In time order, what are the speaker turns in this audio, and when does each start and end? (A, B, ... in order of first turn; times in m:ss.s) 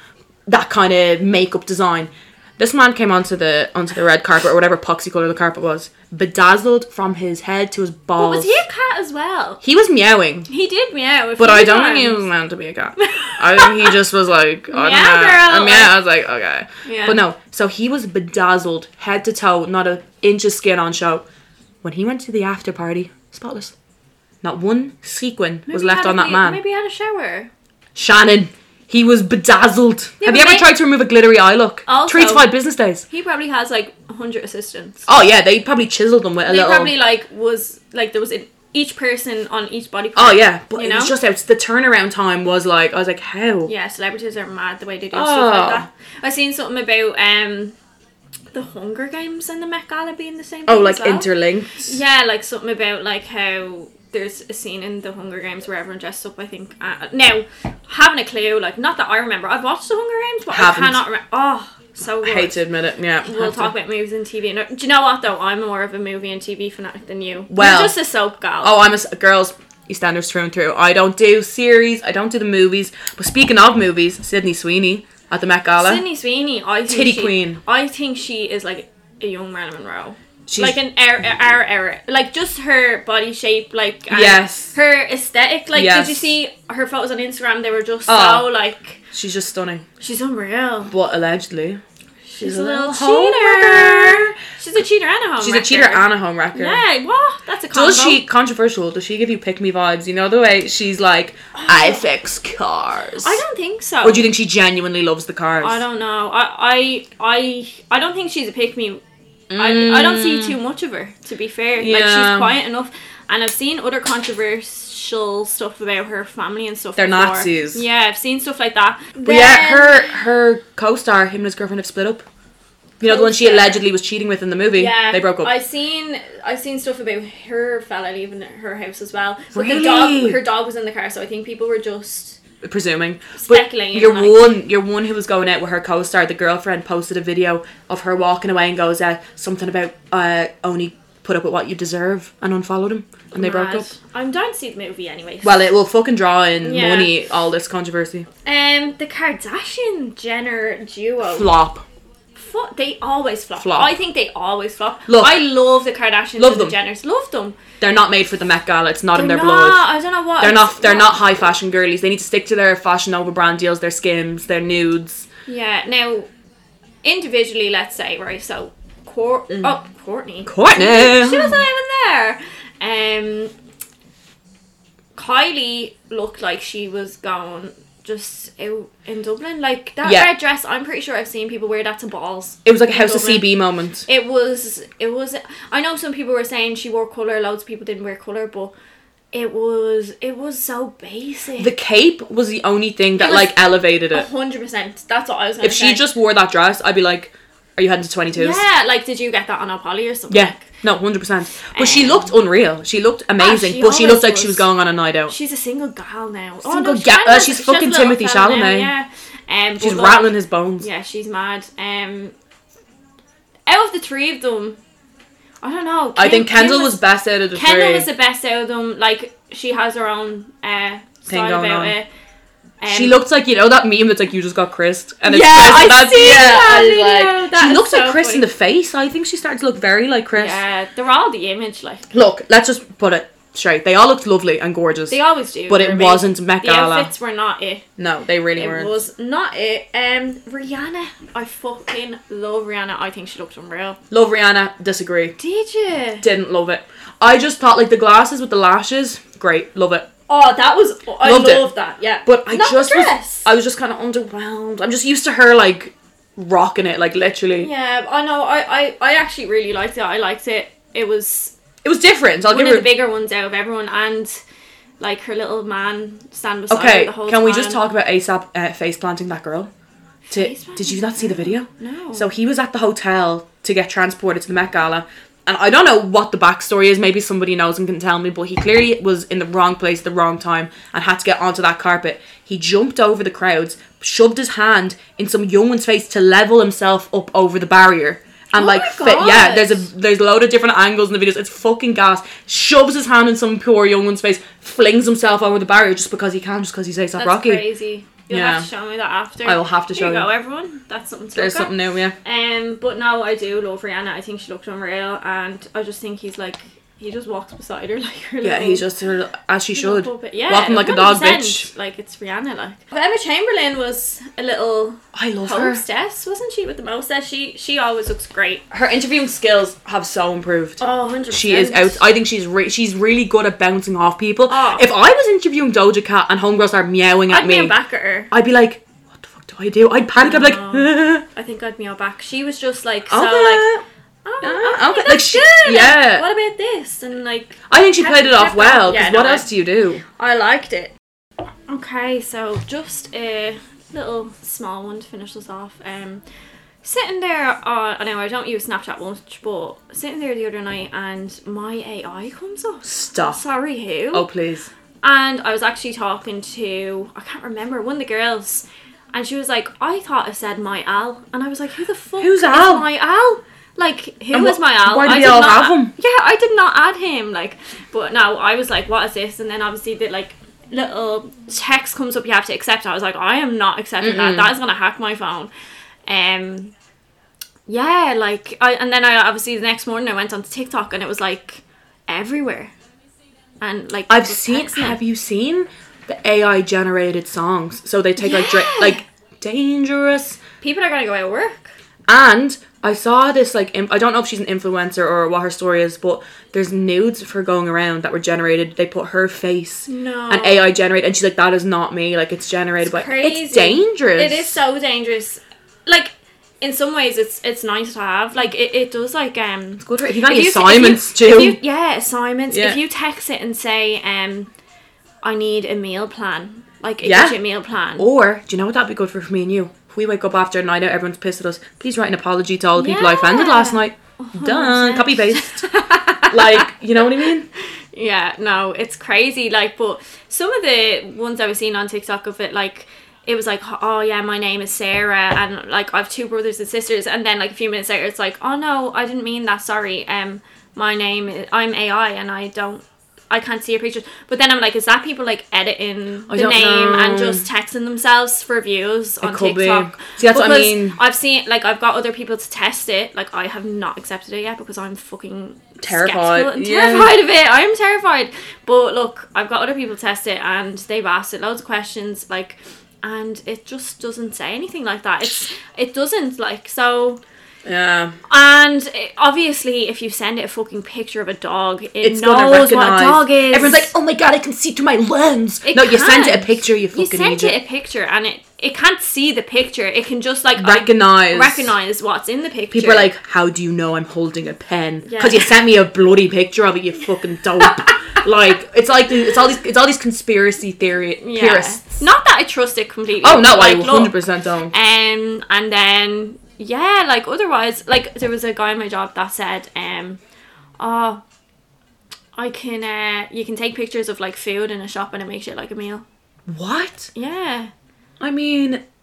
0:00.5-0:08.6 A
0:08.2-0:09.6 B
0:09.6-0:10.5 A
0:10.5-0:12.3 B
0:11.4-0:21.2 A
0:13.0-0:14.0 B
0:14.7-0:16.0 B
0:16.8-0:17.2 B
0:21.8-0:23.7 A
0:24.4-0:26.6 A
0:25.7-0:27.5 B
0:28.0-0:33.0 A
0:30.2-0:30.7 B
0:31.9-0:32.5 B
0:33.1-0:35.1 B
0:35.1-0:36.9 A
0:36.4-0:41.1 B
0:40.2-0:43.7 A
0:43.7-0:47.8 B
0:45.1-0:45.9 A
0:48.5-1:02.6 B
0:50.7-0:52.0 A
1:00.5-1:01.0 A
1:02.2-1:03.7 A
1:03.2-1:08.8 B
1:07.5-1:08.0 A
1:08.6-1:16.0 A
1:15.8-1:29.0 B
1:16.9-1:17.6 A
1:20.5-1:20.8 A
1:24.1-1:24.8 A
1:25.7-1:26.3 A
1:28.1-1:28.5 A
1:29.1-1:29.8 A
1:30.0-1:30.9 B
1:30.9-1:31.8 A
1:32.3-1:38.2 B
1:32.4-1:34.3 A
1:35.4-1:36.8 A
1:37.7-1:43.4 A
1:41.5-1:42.0 B
1:43.2-1:44.3 B
1:44.0-1:45.8 A
1:45.6-1:49.0 B
1:49.5-1:50.6 A
1:49.6-2:00.2 B
1:51.8-1:52.6 A
1:57.0-1:57.8 A
1:59.2-2:02.2 A
2:03.0-2:05.5 A
2:03.0-2:03.8 B
2:04.8-2:12.4 B
2:09.5-2:10.4 A
2:12.6-2:23.9 A
2:13.4-2:14.5 B
2:23.3-2:25.8 B
2:25.4-2:28.3 A
2:26.6-2:27.1 B
2:28.4-2:31.5 B
2:31.3-2:31.8 A
2:32.4-2:37.6 B
2:33.6-2:33.9 A
2:35.1-2:35.4 A
2:36.4-2:36.8 A
2:37.8-2:39.9 A
2:39.1-2:41.2 B
2:40.4-2:45.3 A
2:45.5-2:46.3 B
2:47.0-2:53.5 B
2:50.5-2:51.6 A
2:55.2-3:03.5 B
3:00.0-3:00.3 A
3:02.6-3:04.1 A
3:04.1-3:08.7 B
3:09.3-3:11.7 B
3:11.6-3:14.3 A
3:13.2-3:16.0 B
3:15.6-3:18.6 A
3:18.3-3:20.7 B
3:20.3-3:25.3 A
3:21.7-3:22.3 B
3:23.4-3:24.7 B
3:25.3-3:32.4 B
3:26.6-3:28.9 A
3:29.8-3:30.9 A
3:33.7-3:34.8 B
3:35.6-3:42.1 B
3:36.2-3:38.1 A
3:41.3-3:42.0 A
3:42.8-3:43.2 B
3:42.9-3:50.6 A
3:45.3-3:48.5 B
3:50.4-3:52.1 B
3:52.1-3:55.2 A
3:55.1-3:57.8 B
3:55.7-3:57.1 A
3:58.0-3:59.0 A
3:58.6-4:04.0 B
4:04.1-4:05.4 A
4:05.4-4:06.3 B
4:06.2-4:10.1 A
4:10.3-4:13.5 B
4:11.2-4:11.7 A
4:12.2-4:17.7 A
4:17.6-4:21.6 B
4:21.8-4:22.9 A
4:22.5-4:24.4 B
4:25.0-4:27.8 B
4:26.7-4:29.7 A
4:30.3-4:32.3 B
4:30.3-4:57.6 A
4:48.5-4:49.9 B
4:57.2-5:08.8 B
4:58.3-4:58.7 A
4:59.4-5:00.3 A
5:01.4-5:02.2 A
5:08.4-5:11.7 A
5:09.8-5:18.6 B
5:15.1-5:15.8 A
5:18.7-5:27.8 A
5:20.8-5:22.0 B
5:24.5-5:24.9 B
5:27.3-5:28.3 B
5:28.3-5:31.2 A
5:30.2-5:33.7 B
5:33.1-5:33.8 A
5:34.2-5:39.5 B
5:34.4-5:36.3 A
5:37.7-5:40.0 A
5:40.0-5:40.9 B
5:41.7-5:46.2 B
5:46.8-5:54.3 B
5:52.8-5:53.4 A
5:54.1-5:54.7 A
5:55.0-6:15.5 B
6:02.2-6:02.9 A
6:04.3-6:05.9 A
6:14.0-6:14.5 A
6:16.1-6:16.7 B
6:17.7-6:22.7 B
6:23.6-6:25.0 B
6:24.1-6:30.4 A
6:28.2-6:29.0 B
6:30.6-6:31.8 B
6:32.1-6:44.6 A
6:39.9-6:40.7 B
6:42.8-6:54.5 B
6:49.8-6:51.6 A
6:52.5-6:52.8 A
6:55.2-6:58.0 B
6:57.0-6:57.4 A
6:58.0-7:05.7 A
7:02.8-7:07.3 B
7:06.3-7:07.5 A
7:07.9-7:47.2 B
7:26.3-7:27.5 A
7:29.2-7:31.0 A
7:35.8-7:37.2 A
7:47.6-7:48.2 A
7:48.3-7:53.9 B
7:52.0-7:57.6 A
7:55.6-8:03.1 B
8:00.6-8:01.7 A
8:02.7-8:12.0 A
8:05.0-8:05.5 B
8:07.7-8:08.2 B
8:11.2-8:14.2 B
8:13.2-8:14.7 A
8:14.7-8:20.2 B
8:20.8-8:21.2 B
8:22.4-8:26.0 B
8:26.5-8:27.1 A
8:27.1-8:27.7 B
8:28.2-8:28.8 A